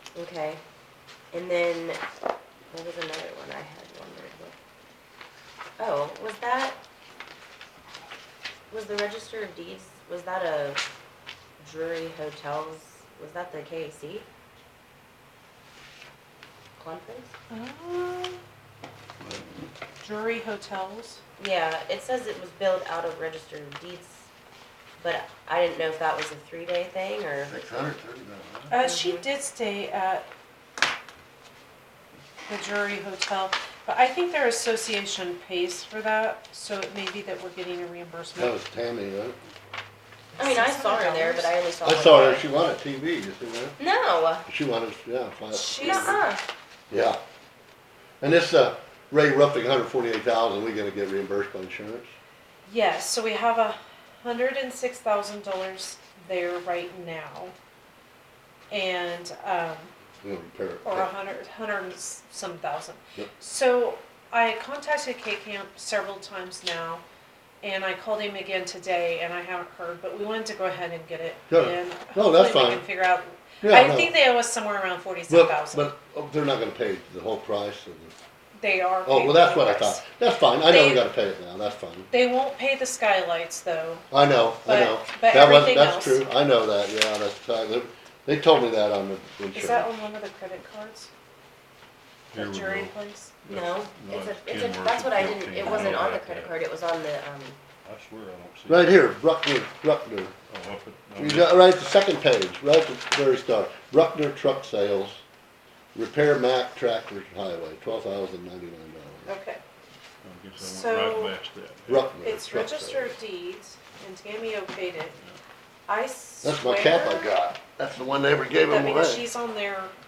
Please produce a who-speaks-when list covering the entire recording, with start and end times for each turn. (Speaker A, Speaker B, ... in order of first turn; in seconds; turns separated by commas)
Speaker A: 0.1-0.6, Speaker A: 1.3-2.0, Speaker A: 2.7-4.6, Speaker A: 5.8-6.8, Speaker A: 8.7-10.8, Speaker A: 11.6-14.3, Speaker A: 16.8-17.3, Speaker B: 17.5-18.4, Speaker B: 20.0-21.2, Speaker A: 21.4-24.3, Speaker A: 25.0-27.5, Speaker C: 27.5-28.7, Speaker B: 28.7-30.2, Speaker A: 28.8-29.3, Speaker B: 32.5-38.5, Speaker C: 38.4-39.4, Speaker B: 40.4-41.5, Speaker A: 40.4-42.5, Speaker C: 41.8-43.8, Speaker A: 43.8-44.5, Speaker C: 44.5-46.2, Speaker B: 45.5-46.4, Speaker A: 45.8-46.4, Speaker C: 46.9-47.2, Speaker C: 48.2-52.1, Speaker B: 52.7-57.5, Speaker B: 58.7-59.9, Speaker C: 60.2-61.1, Speaker B: 60.8-67.0, Speaker B: 67.6-75.9, Speaker C: 71.5-72.8, Speaker C: 73.6-74.1, Speaker C: 75.3-78.2, Speaker B: 78.6-80.0, Speaker C: 79.0-82.1, Speaker B: 80.7-81.0, Speaker B: 82.1-84.0, Speaker C: 84.1-89.9, Speaker B: 84.6-86.2, Speaker B: 89.5-91.1, Speaker D: 92.3-92.9, Speaker B: 92.3-93.3, Speaker D: 93.5-96.5, Speaker A: 93.5-97.6, Speaker D: 97.8-99.0, Speaker C: 98.7-100.3, Speaker D: 100.5-101.8, Speaker C: 101.2-105.2, Speaker C: 106.0-109.3, Speaker B: 109.3-109.6, Speaker D: 110.2-112.1, Speaker B: 110.6-111.3, Speaker C: 111.9-113.1, Speaker B: 112.2-115.2, Speaker B: 115.9-117.3, Speaker C: 116.4-119.3, Speaker B: 118.7-119.9